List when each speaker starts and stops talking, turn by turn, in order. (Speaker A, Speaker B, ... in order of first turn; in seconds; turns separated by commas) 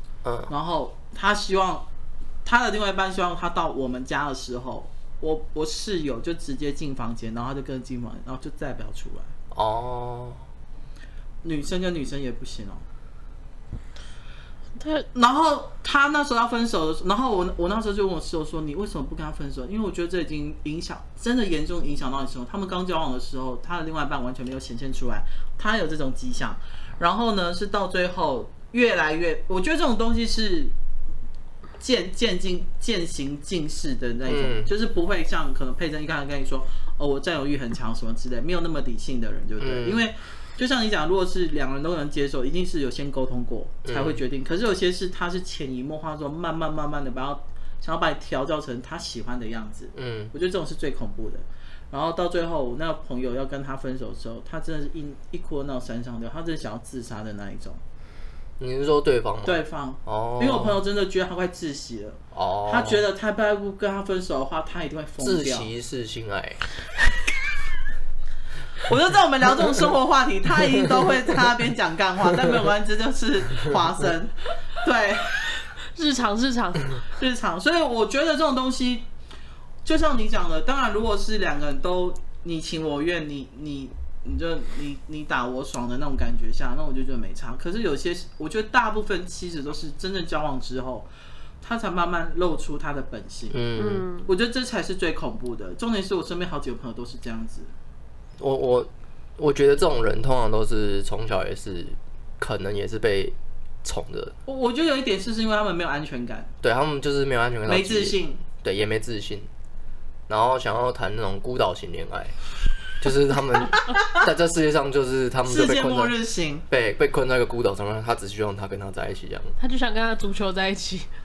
Speaker A: 0.2-0.5, Speaker B: 0.5-1.9, Speaker B: 2.5-9.3, Speaker A: 9.5-10.4, Speaker B: 11.4-12.8, Speaker C: 14.8-15.1, Speaker B: 15.2-30.7, Speaker B: 31.8-57.8, Speaker A: 34.3-34.7, Speaker A: 39.6-40.1, Speaker A: 43.9-44.2, Speaker A: 50.0-50.3, Speaker A: 58.6-60.8, Speaker B: 59.5-65.7, Speaker A: 62.3-63.0, Speaker A: 65.2-66.6, Speaker B: 68.9-75.4, Speaker C: 76.0-76.9, Speaker B: 77.2-79.1, Speaker B: 79.8-91.1, Speaker B: 91.6-93.6, Speaker A: 93.5-94.0, Speaker C: 93.8-94.3, Speaker B: 94.2-97.7, Speaker A: 98.4-104.3, Speaker B: 104.5-106.5, Speaker A: 106.6-109.5, Speaker B: 107.7-108.4, Speaker A: 110.3-112.3, Speaker A: 113.0-116.1, Speaker B: 113.9-114.2, Speaker B: 115.5-116.7, Speaker A: 116.7-119.5, Speaker C: 119.6-121.1